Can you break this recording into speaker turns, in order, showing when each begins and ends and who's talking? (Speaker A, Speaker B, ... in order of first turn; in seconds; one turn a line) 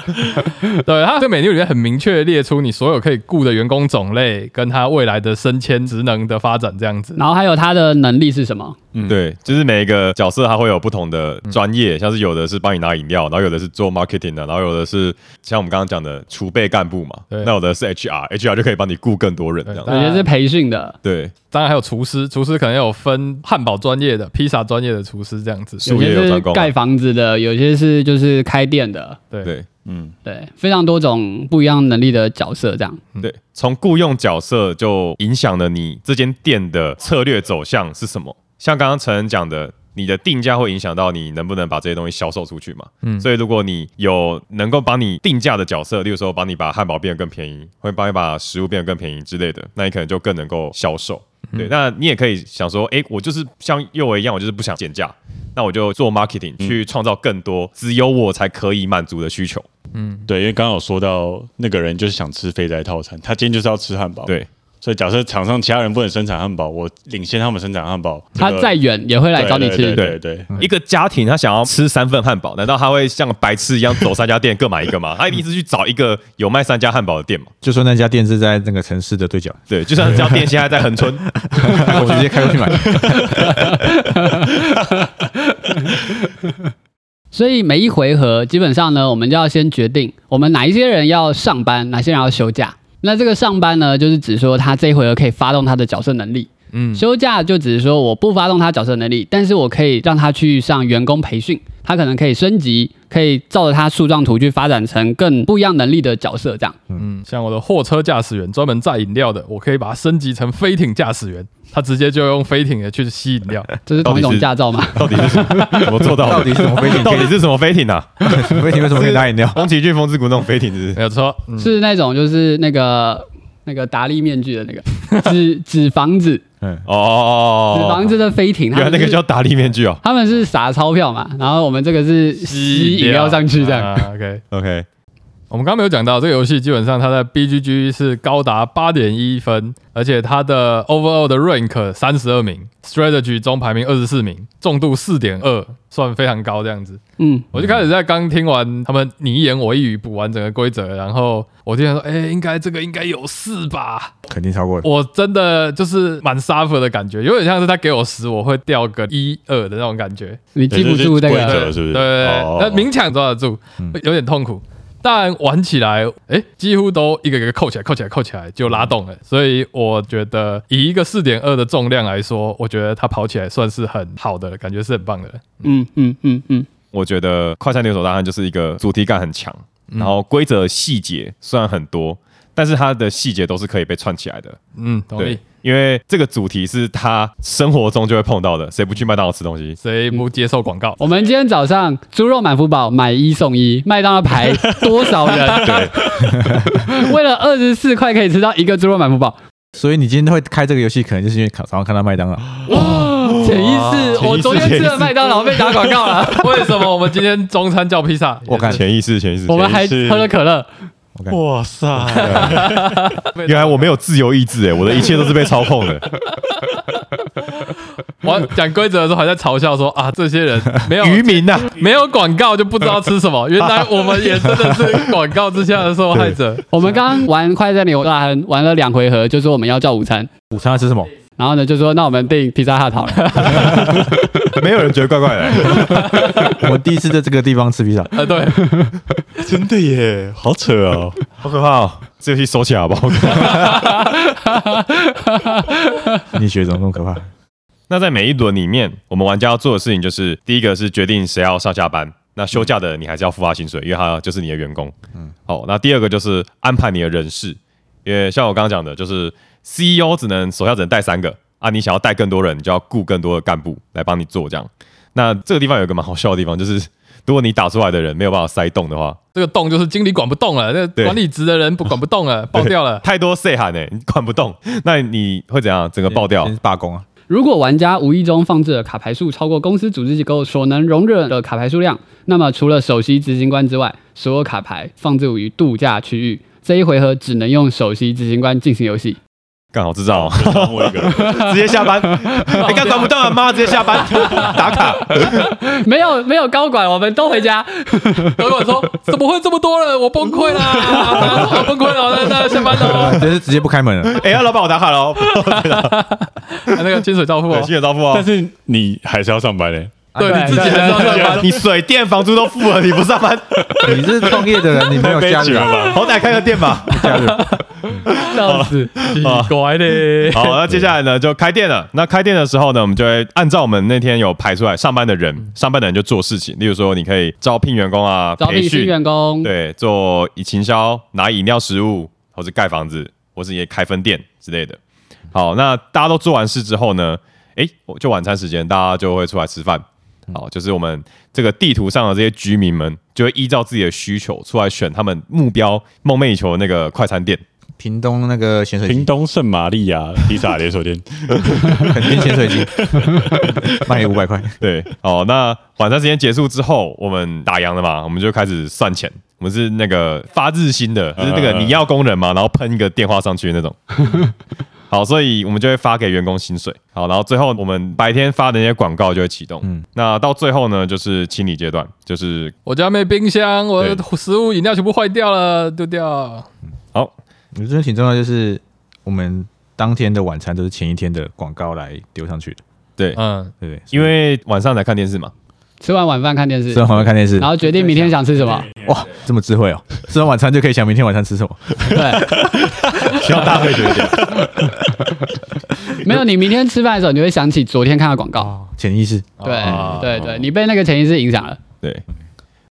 Speaker A: 0.3-7.2
Speaker B: 7.2-8.8
Speaker C: 8.9-9.2
Speaker D: 9.1-19.9
Speaker A: 19.7-20.3
Speaker B: 19.9-20.9
Speaker D: 21.0-21.3
Speaker A: 21.5-25.9
Speaker D: 25.8-26.7
Speaker B: 25.9-29.2
Speaker C: 29.9-30.1
Speaker B: 30.2-33.0
Speaker D: 33.2-59.7
Speaker A: 59.9-60.3
Speaker C: 60.3-68.8
Speaker B: 68.4-70.0
Speaker C: 69.3-70.5
Speaker D: 70.0-77.5
Speaker E: 77.6-80.5
Speaker D: 79.7-82.2
Speaker E: 81.4-83.9
Speaker B: 84.2-84.9
Speaker B: 87.3-106.8
Speaker A: 96.7-97.0
Speaker A: 107.0-113.7
Speaker B: 113.9-115.9
Speaker D: 114.0-121.0
Speaker E: 116.1-117.4
Speaker E: 118.3-119.7
Speaker A: 121.0-121.7
Speaker B: 121.6-126.4
Speaker E: 126.6-126.9
Speaker D: 126.9-128.2
Speaker B: 127.7-129.2
Speaker D: 128.7-130.0
Speaker B: 130.0-134.1
Speaker A: 132.4-134.4
Speaker D: 134.5-134.9
Speaker A: 135.5-147.0
Speaker B: 147.2-147.5
Speaker A: 147.5-154.1
Speaker E: 154.3-154.9
Speaker A: 154.8-160.4
Speaker B: 160.6-161.7
Speaker C: 160.7-162.9
Speaker A: 161.4-175.6
Speaker B: 175.6-176.7
Speaker D: 176.9-184.6
Speaker A: 179.9-180.2
Speaker A: 184.8-185.4
Speaker D: 185.2-189.8
Speaker A: 189.8-191.0
Speaker B: 191.0-199.4
Speaker D: 195.6-195.9
Speaker C: 195.6-195.9
Speaker E: 196.3-196.7
Speaker E: 199.8-202.5
Speaker B: 202.7-206.6
Speaker D: 202.7-205.1
Speaker A: 204.3-204.9
Speaker A: 206.3-208.8
Speaker E: 208.5-208.8
Speaker D: 208.6-209.8
Speaker B: 209.5-210.7
Speaker C: 209.7-210.3
Speaker C: 211.3-213.1
Speaker E: 212.0-212.5
Speaker D: 212.2-212.6
Speaker A: 212.3-213.9
Speaker D: 213.4-216.1
Speaker A: 216.3-226.8
Speaker D: 221.0-221.8
Speaker B: 226.7-230.3
Speaker E: 230.5-231.1
Speaker B: 231.4-233.8
Speaker A: 233.2-234.1
Speaker D: 234.5-236.1
Speaker A: 235.8-236.5
Speaker E: 236.2-238.1
Speaker A: 238.2-238.9
Speaker C: 239.4-241.2
Speaker D: 241.4-244.1
Speaker A: 243.5-243.8
Speaker E: 246.3-247.3
Speaker D: 247.9-254.9
Speaker D: 255.5-269.2
Speaker A: 269.4-273.0
Speaker D: 272.6-276.5
Speaker E: 276.1-277.1
Speaker B: 277.3-289.2
Speaker D: 289.7-295.5
Speaker C: 290.1-291.5
Speaker B: 292.3-293.0
Speaker A: 292.6-293.1
Speaker B: 294.1-294.5
Speaker A: 294.2-294.5
Speaker B: 295.2-298.4
Speaker A: 298.3-303.3
Speaker E: 302.7-304.2
Speaker D: 304.1-306.1
Speaker A: 305.3-307.7
Speaker D: 307.5-308.3
Speaker C: 308.1-311.4
Speaker E: 310.1-310.8
Speaker A: 310.2-311.5
Speaker B: 310.2-311.4
Speaker D: 311.2-314.5
Speaker E: 313.8-315.9
Speaker C: 314.9-316.0
Speaker D: 315.8-317.3
Speaker E: 316.9-317.5
Speaker A: 317.0-317.9
Speaker D: 318.1-319.5
Speaker B: 318.1-318.9
Speaker A: 318.9-320.6
Speaker D: 320.3-334.8
Speaker B: 328.4-329.5
Speaker D: 335.3-347.4
Speaker E: 347.8-349.1
Speaker C: 348.9-353.5
Speaker E: 351.8-354.6
Speaker D: 354.6-364.3
Speaker C: 361.2-361.8
Speaker D: 364.9-372.5
Speaker A: 372.7-376.5
Speaker E: 377.6-382.6
Speaker A: 383.2-383.5
Speaker E: 383.6-384.1
Speaker D: 383.9-385.3
Speaker B: 385.8-388.7
Speaker E: 386.7-387.5
Speaker E: 388.8-392.0
Speaker B: 391.9-392.3
Speaker D: 393.0-394.5
Speaker B: 395.9-398.5
Speaker E: 398.4-399.9
Speaker A: 399.4-400.1
Speaker B: 399.4-401.6
Speaker C: 399.8-400.1